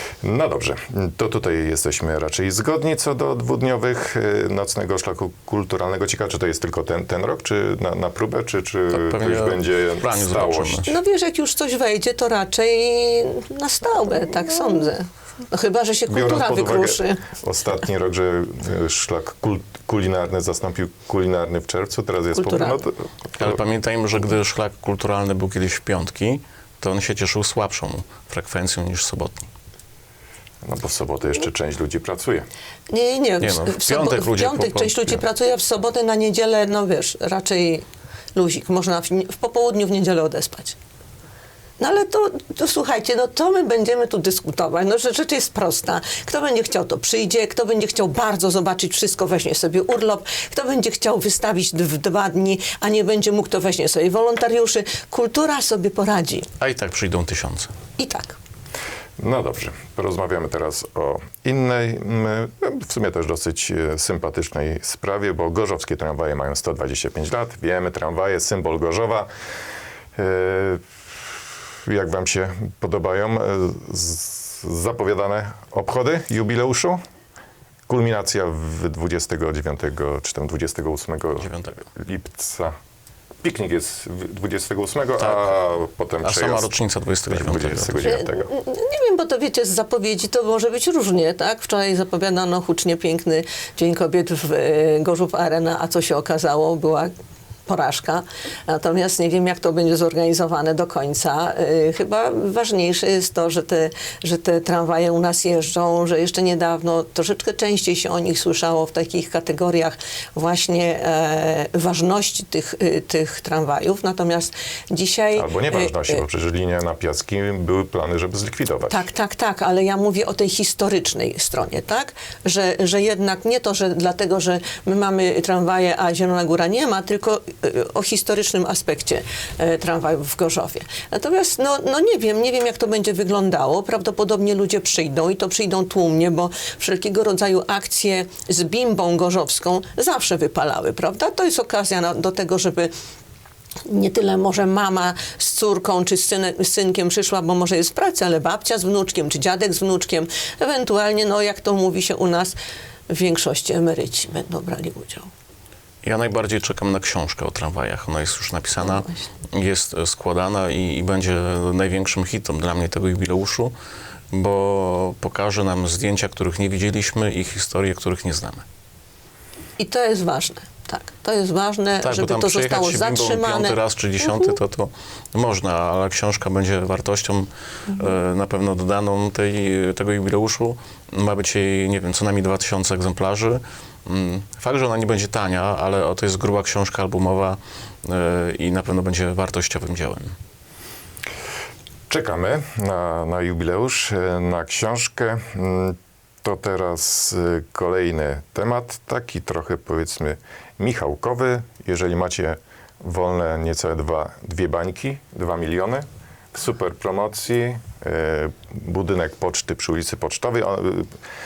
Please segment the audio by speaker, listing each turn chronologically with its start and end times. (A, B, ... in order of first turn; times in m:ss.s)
0:00.2-0:11.0 A
0:08.9-0:10.9 B
0:10.9-0:17.2 C
0:16.1-0:23.6 A
0:22.3-0:22.8 C
0:23.4-0:29.5 B
0:30.6-0:32.5 A
0:32.9-0:37.8 C
0:33.4-0:35.2 B
0:38.4-0:40.8 C
0:41.8-0:56.5 C
0:56.6-0:57.7 B
0:58.0-0:58.4 C
0:59.2-1:09.3 A
1:10.2-1:10.8 A
1:11.9-1:17.0 A
1:17.9-1:22.7 A
1:21.4-1:21.8 B
1:23.4-1:26.7 A
1:25.2-1:25.5 B
1:26.2-1:28.2 B
1:27.3-1:28.5 A
1:28.0-1:37.1 C
1:37.7-1:56.2 C
1:55.4-1:59.0 A
1:58.9-2:22.9 C
2:23.9-2:32.6 C
2:33.1-2:35.3 C
2:36.0-2:43.7 B
2:38.8-2:39.2 C
2:44.3-2:48.6 B
2:49.8-2:54.5 C
2:52.0-3:10.4 B
3:12.1-3:31.1 A